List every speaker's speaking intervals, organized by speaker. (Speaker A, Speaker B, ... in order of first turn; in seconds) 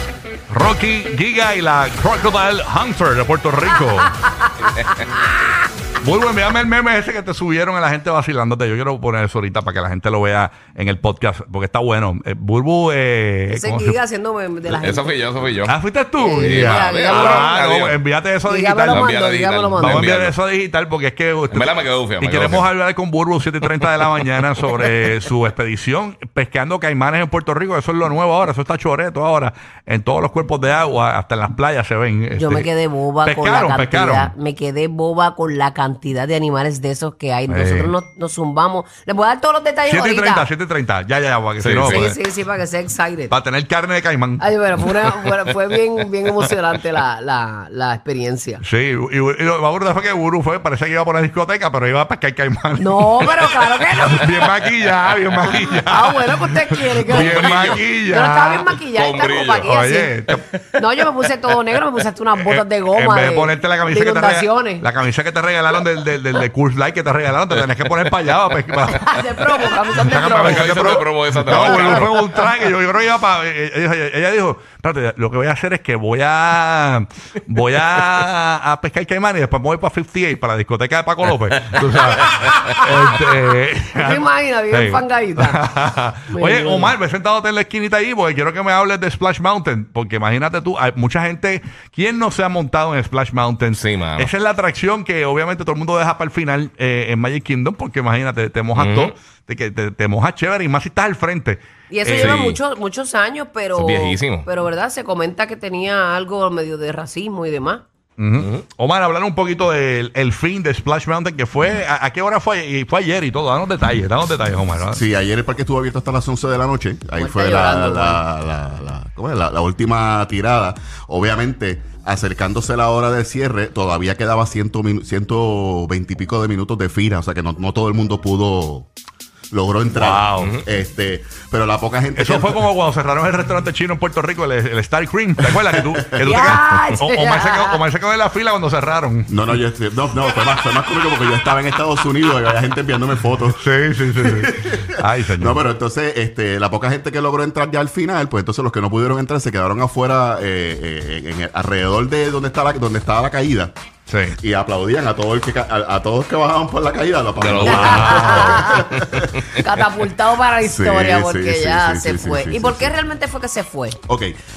Speaker A: 0.5-4.2, 6.0-14.0, 15.7-19.1, 19.7-32.7, 33.2-34.3, 37.5-37.9, 39.9-42.2, 43.3-44.5, 48.6-58.6, 59.6-60.4, 62.4-69.4, 69.9-102.6, 108.2-115.0, 129.9-130.5, 132.2-139.3, 143.6-145.6, 154.1-154.4, 157.6-158.6
Speaker B: 4.7-5.2, 14.7-15.8, 16.4-18.0, 18.8-20.4, 21.5-22.7, 41.6-42.1, 55.3-55.6, 57.1-57.8, 58.7-59.7, 60.3-60.7, 67.5-68.4, 70.1-72.3, 81.8-82.3, 93.7-94.3, 98.7-99.1, 102.1-102.5, 103.8-104.5, 108.4-108.7, 130.4-130.6, 157.4-159.6
Speaker C: 13.5-15.2, 16.2-17.6, 18.4-20.1, 32.3-40.5, 41.8-43.4, 44.4-48.6, 52.8-54.5, 55.8-60.1, 60.8-64.9, 68.9-70.8, 71.5-72.1, 82.6-83.3, 83.9-85.7, 86.3-87.0, 101.9-107.8, 117.2-118.2, 136.2-137.8, 157.6-158.9, 159.5-164.0
Speaker D: 114.9-128.9, 129.5-132.6, 135.4-135.8, 139.3-143.6, 144.2-153.7, 154.4-159.4, 160.6-162.9, 164.0-164.3